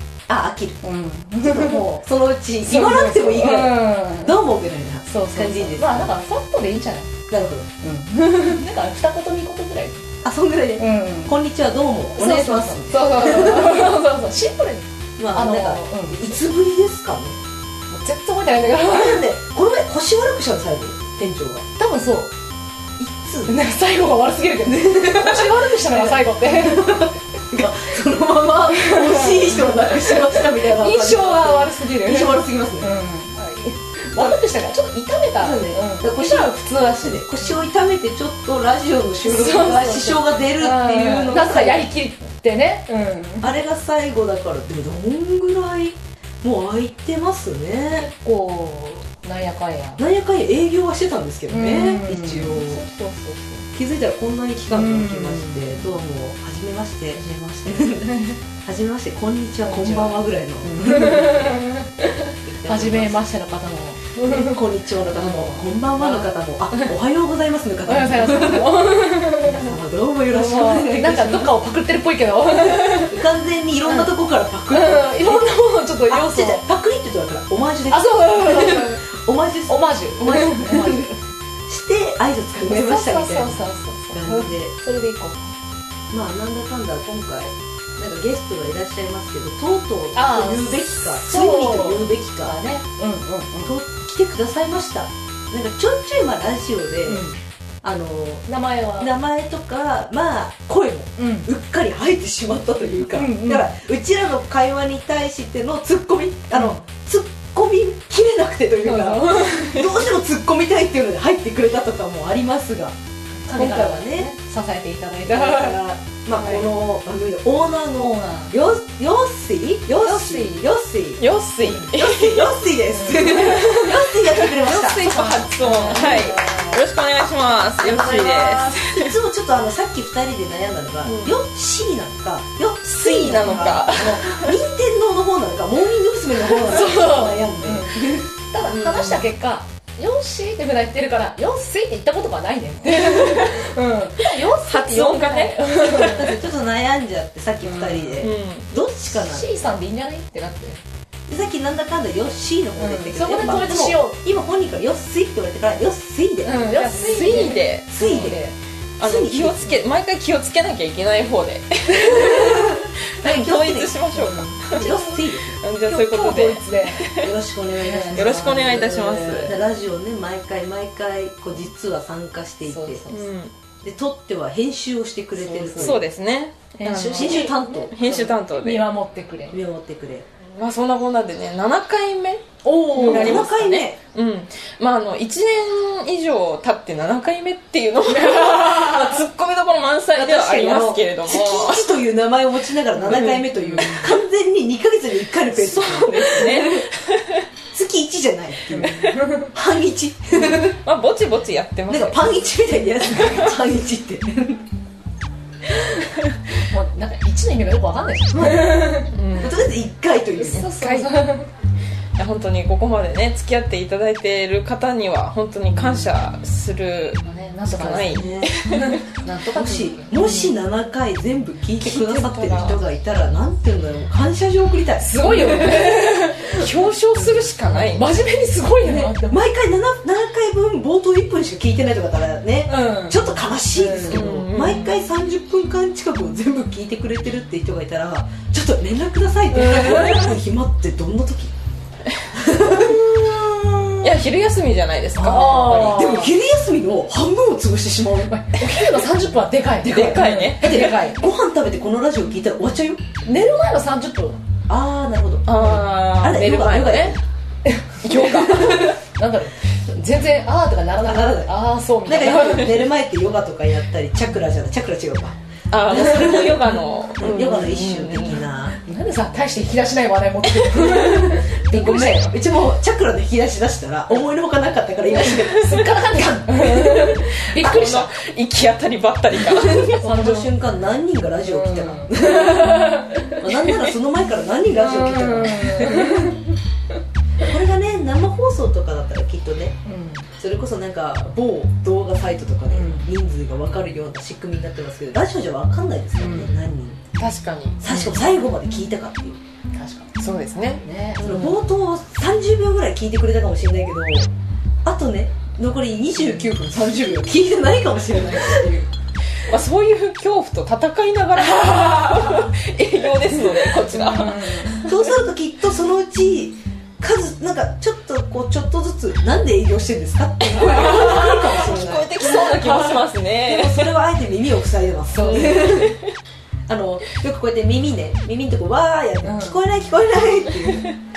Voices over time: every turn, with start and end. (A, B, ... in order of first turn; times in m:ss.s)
0:00.3-0:00.8 A
0:00.8-0:01.8 B
0:01.4-0:06.2 A
0:02.6-0:04.3 B
0:05.0-0:07.1 B
0:07.3-0:07.7 A
0:07.8-0:10.0 B
0:10.2-0:14.1 A
0:10.8-0:11.4 B
0:12.1-0:16.4 B
0:15.2-0:17.4 A
0:17.9-0:19.2 B
0:18.8-0:21.6 A
0:21.8-0:22.3 B
0:23.0-0:23.6 A
0:23.5-0:27.1 B
0:24.6-0:32.9 A
0:28.7-0:37.4 B
0:35.4-0:41.9 A
0:39.2-0:43.5 B
0:43.4-0:48.1 A
0:48.1-0:50.0 B
0:50.0-0:52.8 A
0:51.5-0:53.7 B
0:53.7-1:01.7 A
0:54.7-0:55.8 B
0:57.8-0:58.3 B
0:59.6-1:04.6 B
1:02.4-1:03.2 A
1:04.2-1:11.5 A
1:05.1-1:06.9 B
1:07.8-1:09.7 B
1:10.3-1:13.2 B
1:12.9-1:21.1 A
1:13.8-1:14.1 B
1:14.7-1:16.6 B
1:17.9-1:19.0 B
1:19.7-1:21.2 B
1:21.7-1:23.6 A
1:22.6-1:25.4 B
1:24.1-1:24.7 A
1:26.1-1:32.6 A
1:30.1-1:33.7 B
1:33.6-1:37.2 A
1:37.0-1:37.4 B
1:37.8-1:38.4 A
1:38.5-1:39.1 B
1:39.0-1:52.9 A
1:41.2-1:41.5 B
1:43.1-1:43.7 B
1:46.5-1:46.8 B
1:48.8-1:49.9 B
1:53.4-1:55.8 B
1:53.5-1:54.3 A
1:55.3-2:06.3 A
1:56.4-1:56.7 B
1:58.0-1:58.5 B
2:00.0-2:00.7 B
2:01.2-2:02.6 C
2:02.9-2:03.9 B
2:03.3-2:09.2 C
2:05.6-2:06.8 B
2:07.8-2:18.3 A
2:11.0-2:11.4 C
2:12.8-2:14.5 C
2:16.6-2:26.4 B
2:23.1-2:23.4 C
2:24.3-2:26.2 C
2:25.8-2:29.5 A
2:27.6-2:28.2 B
2:28.2-2:28.7 C
2:29.1-2:30.8 B
2:31.3-2:36.7 A
2:32.8-2:34.2 B
2:36.4-2:38.5 B
2:36.7-2:38.4 C
2:37.9-2:38.4 A
2:39.0-2:47.3 C
2:39.0-2:39.8 A
2:42.1-2:45.6 A
2:44.1-2:45.2 B
2:45.8-2:47.2 B
2:47.2-2:53.0 A
2:47.7-2:49.4 B
2:48.1-2:49.6 C
2:52.7-2:53.3 B
2:53.1-2:53.5 C
2:53.8-2:56.0 A
2:55.5-2:56.0 B
2:55.5-2:58.9 C
2:56.8-2:59.6 B
2:57.1-2:58.3 A
2:59.5-3:00.3 A
3:00.6-3:12.0 C
3:02.6-3:03.5 B
3:02.9-3:04.0 A
3:08.1-3:09.2 B
3:10.1-3:16.9 A
3:13.0-3:14.2 C
3:15.5-3:17.4 C
3:17.7-3:20.8 A
3:18.7-3:19.5 B
3:20.4-3:22.4 C
3:21.9-3:24.6 A
3:26.7-3:29.1 B
3:28.3-3:30.7 A
3:29.1-3:29.5 C
3:30.4-3:31.5 B
3:30.5-3:31.4 C
3:32.2-3:39.0 C
3:37.2-3:38.2 B
3:37.9-3:38.5 A
3:38.8-3:40.1 B
3:39.4-3:45.9 A
3:40.1-3:40.5 C
3:41.8-3:42.8 C
3:45.0-3:46.7 B
3:46.4-3:48.0 C
3:47.4-3:49.4 B
3:48.8-4:01.5 A
3:52.6-3:53.2 B
3:53.7-3:54.3 B
3:54.1-3:54.9 C
3:59.5-4:00.3 B
4:02.3-4:04.2 A
4:04.0-4:05.8 C
4:05.2-4:09.1 A
4:05.2-4:06.3 B
4:08.3-4:11.2 B
4:09.8-4:13.0 A
4:09.8-4:11.0 C
4:13.2-4:14.4 B
4:14.7-4:17.2 A
4:15.4-4:17.1 C
4:17.6-4:22.9 B
4:18.0-4:19.0 C
4:18.2-4:18.9 A
4:21.0-4:28.8 A
4:25.7-4:28.4 C
4:28.8-4:32.4 B
4:30.8-4:37.2 A
4:35.1-4:38.2 B
4:37.0-4:40.0 C
4:39.4-4:46.4 A
4:39.6-4:40.6 B
4:41.4-4:43.4 B
4:44.7-4:46.5 B
4:47.4-4:49.8 A
4:49.8-4:50.3 B
4:50.4-4:57.0 A
4:52.7-4:53.0 B
4:56.2-4:56.5 B
4:57.2-4:58.0 C
4:57.8-4:59.4 A
4:59.7-5:00.1 B
5:00.2-5:01.6 C
5:00.8-5:01.2 B
5:01.2-5:04.3 A
5:04.8-5:08.9 A
5:09.5-5:15.0 C
5:13.9-5:14.8 B
5:14.7-5:26.0 A
5:20.6-5:23.9 C
5:25.1-5:25.8 B
5:25.2-5:26.1 C
5:26.7-5:30.9 A
5:29.2-5:29.6 B